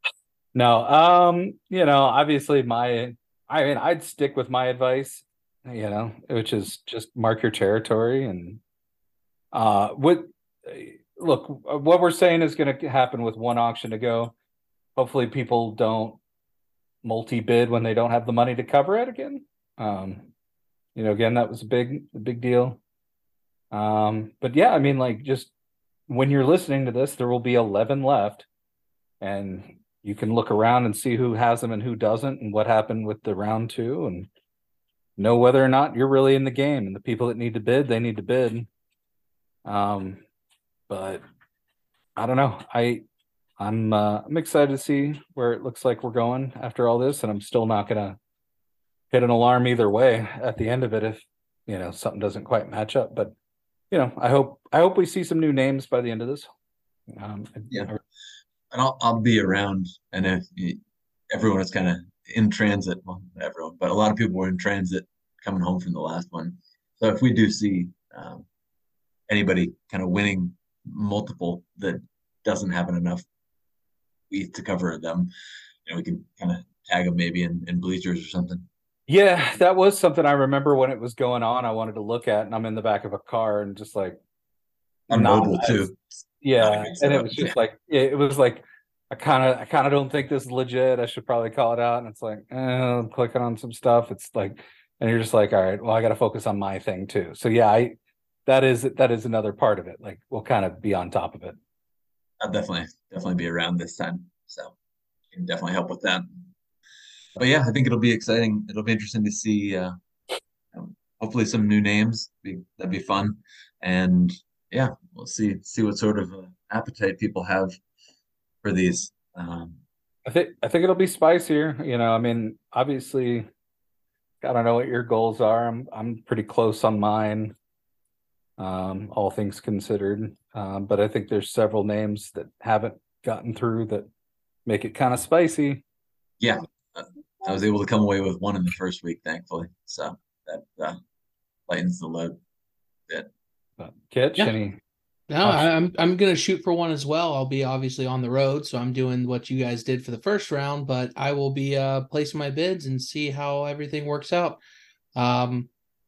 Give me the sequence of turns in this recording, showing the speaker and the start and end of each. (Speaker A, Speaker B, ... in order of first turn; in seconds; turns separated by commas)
Speaker A: 0.5-8.6, Speaker A: 9.5-14.3, Speaker A: 14.9-16.2, Speaker A: 17.0-20.3, Speaker A: 20.9-22.8, Speaker A: 23.7-25.5, Speaker A: 26.1-28.5, Speaker A: 29.2-34.3, Speaker A: 35.2-38.7, Speaker A: 39.6-40.2, Speaker A: 40.9-41.2, Speaker A: 42.2-43.0, Speaker A: 43.6-48.2, Speaker A: 49.1-53.3, Speaker A: 53.9-56.5, Speaker A: 57.1-58.0, Speaker B: 58.7-68.5, Speaker B: 69.3-73.2, Speaker B: 74.3-75.3, Speaker B: 75.8-78.7, Speaker A: 79.1-84.2, Speaker A: 85.1-85.8, Speaker B: 85.1-86.0, Speaker A: 86.4-97.9, Speaker B: 86.6-87.5, Speaker A: 98.5-101.6, Speaker B: 102.4-104.7, Speaker B: 105.3-106.3, Speaker B: 107.3-109.9, Speaker B: 110.7-117.7, Speaker B: 118.6-119.8, Speaker A: 120.2-123.5, Speaker A: 124.4-127.5, Speaker A: 128.6-134.1, Speaker A: 134.7-135.8, Speaker B: 136.4-141.0, Speaker B: 141.7-142.4, Speaker A: 143.8-144.8, Speaker C: 145.3-154.6, Speaker A: 145.4-145.7, Speaker C: 155.2-155.7